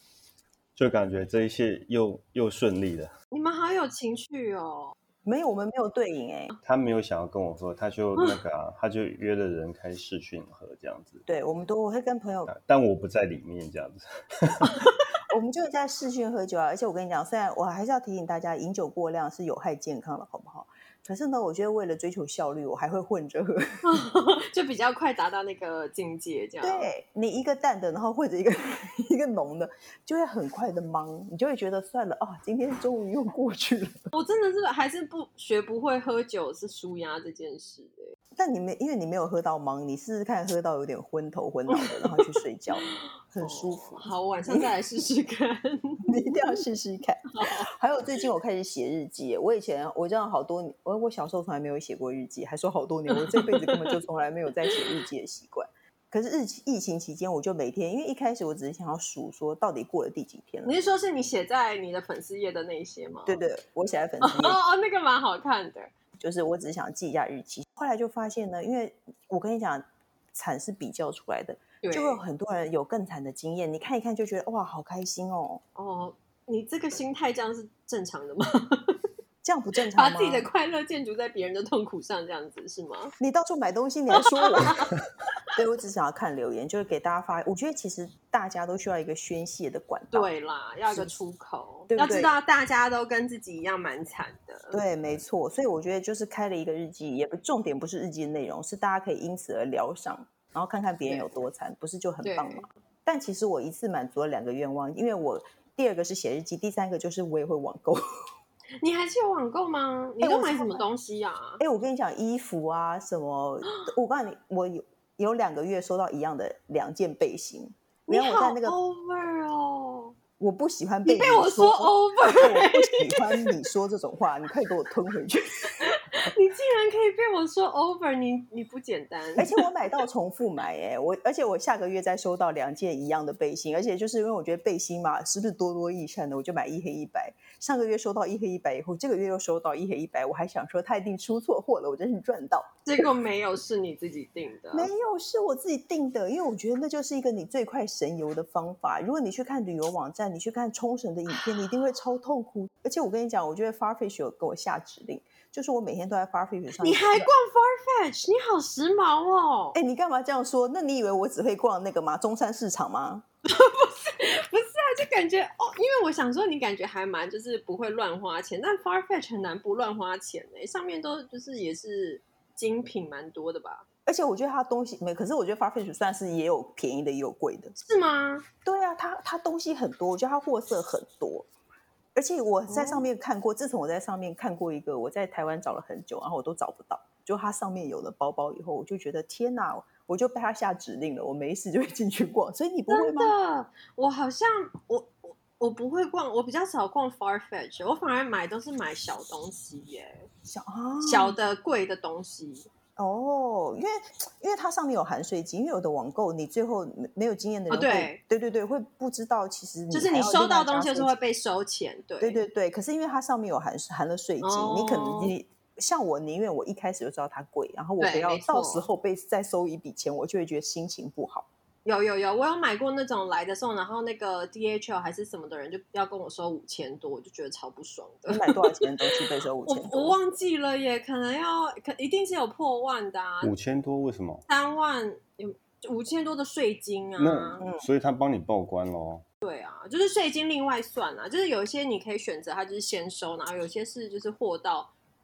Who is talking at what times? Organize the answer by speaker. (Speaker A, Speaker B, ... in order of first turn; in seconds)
Speaker A: 0.8-3.1, 6.6-11.2, 12.5-14.7, 233.4-234.4, 237.2-239.2
Speaker B: 3.3-4.9, 14.8-15.0, 23.8-26.9, 34.1-38.1, 41.7-42.3, 42.8-46.1, 47.3-47.7, 53.1-54.0, 54.6-54.9, 60.6-63.4, 64.2-65.9, 71.8-72.2, 75.8-79.0, 79.9-83.1, 84.2-84.9, 90.1-94.8, 101.0-101.4, 102.2-102.7, 108.8-111.6, 118.1-120.1, 121.0-123.5, 125.8-129.7, 142.8-144.9, 156.8-159.8, 163.4-173.8, 177.8-178.4, 182.7-183.1, 192.9-200.3, 201.0-202.7, 207.7-208.2, 209.9-212.4, 214.4-215.3, 218.0-218.9, 221.8-233.5, 234.5-237.6, 239.4-244.9
Speaker C: 5.2-6.5, 11.3-12.5, 15.3-23.8, 26.6-34.1, 38.4-44.7, 46.0-60.7, 63.2-64.6, 66.2-75.6, 79.4-80.5, 83.2-84.9, 85.5-90.3, 90.9-91.1, 91.9-92.3, 94.7-108.0, 110.2-110.8, 111.6-118.7, 120.4-125.9, 129.4-142.8, 144.7-157.3, 159.7-163.2, 174.1-177.8, 178.6-181.5, 182.1-193.3, 200.5-201.3, 203.0-211.1, 212.2-221.5, 228.3-230.2